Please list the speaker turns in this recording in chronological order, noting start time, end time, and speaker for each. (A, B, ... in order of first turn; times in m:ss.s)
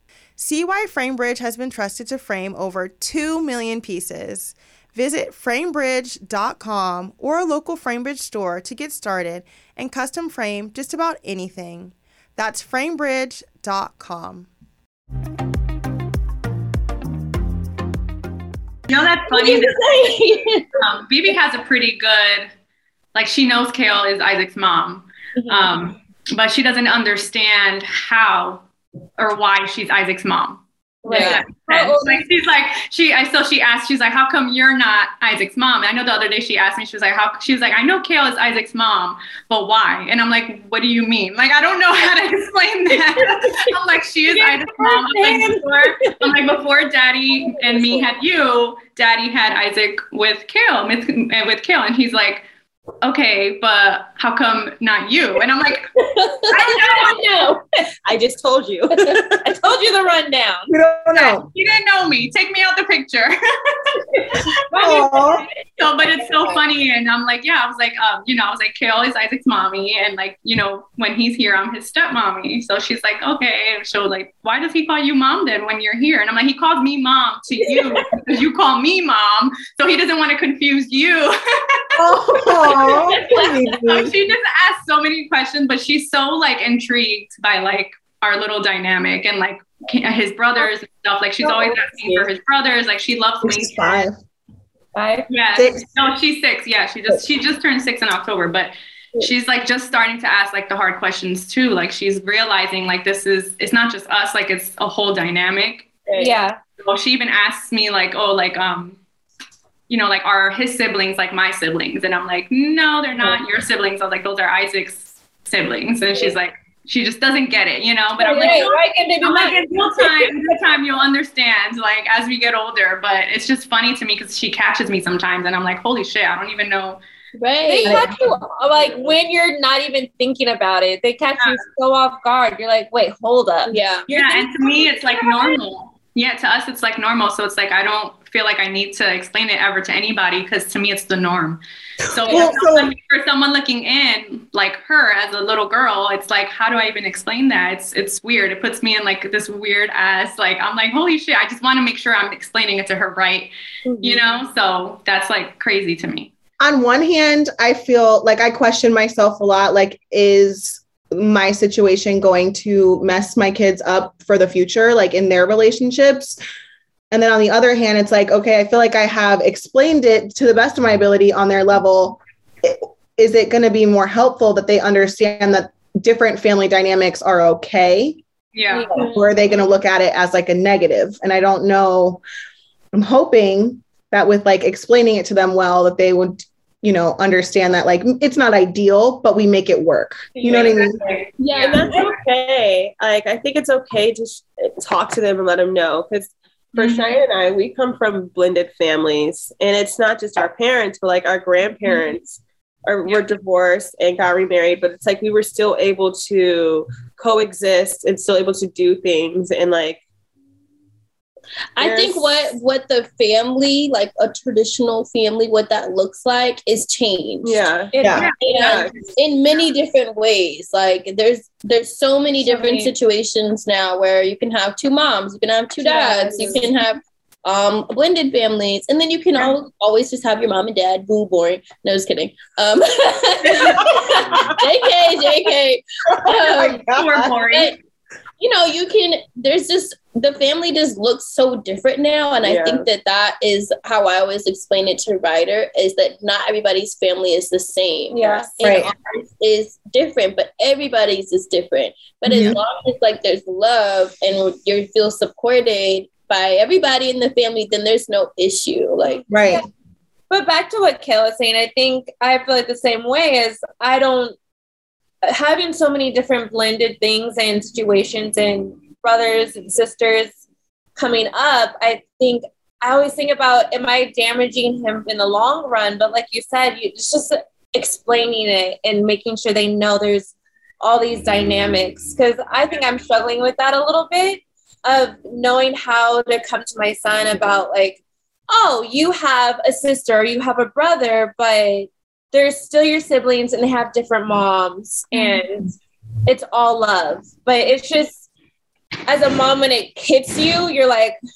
0:00.4-0:14.5 A
0:18.9-0:19.8 B
0:19.3-0:20.6 C
0:20.8-0:22.5 B
0:23.1-0:28.6 B
0:29.2-0:52.4 B
0:31.0-0:32.2 D
0:31.1-0:31.4 C
0:44.3-0:45.6 D
0:53.0-0:55.9 B
0:56.5-0:57.5 B
0:56.6-0:57.6 D
0:58.0-0:59.5 E
0:58.9-1:00.7 D
1:00.7-1:01.5 F
1:01.1-1:05.0 B
1:04.7-1:05.4 D
1:04.7-1:05.4 F
1:05.8-1:22.0 B
1:06.2-1:06.6 D
1:21.9-1:24.2 F
1:22.6-1:34.0 B
1:33.4-1:34.2 F
1:34.9-1:35.3 D
1:35.3-1:45.9 B
1:35.5-1:35.8 F
1:46.1-1:46.6 D
1:46.8-1:49.0 B
1:49.9-2:07.0 B
1:58.2-2:00.3 D
2:07.4-2:08.1 C
2:07.6-2:13.8 D
2:13.6-2:14.1 C
2:14.1-2:36.3 B
2:22.2-2:22.9 F
2:36.6-2:46.4 F
2:47.1-2:58.2 F
2:58.5-2:59.1 B
2:58.7-2:59.3 D
2:59.0-3:02.2 F
3:02.9-3:11.0 F
3:10.4-3:30.0 E
3:10.5-3:12.0 B
3:11.4-3:12.1 C
3:16.8-3:17.2 B
3:31.8-3:37.6 C
3:31.8-3:32.4 E
3:37.4-3:37.9 E
3:37.9-3:38.6 D
3:38.0-3:38.3 F
3:38.1-3:39.0 B
3:38.4-3:56.8 C
3:38.5-3:38.9 E
3:42.4-3:42.9 D
3:45.8-3:46.6 D
3:53.4-3:54.4 B
3:56.5-3:57.4 E
3:56.8-3:57.7 B
3:57.5-3:57.8 C
3:58.4-4:19.2 C
4:02.4-4:02.8 E
4:08.1-4:08.5 D
4:08.6-4:08.9 F
4:12.3-4:12.6 F
4:19.1-4:19.6 D
4:19.3-4:19.6 F
4:20.3-4:24.4 D
4:25.2-4:30.4 D
4:31.0-4:58.2 D
4:55.1-4:55.4 B
4:59.1-5:01.2 D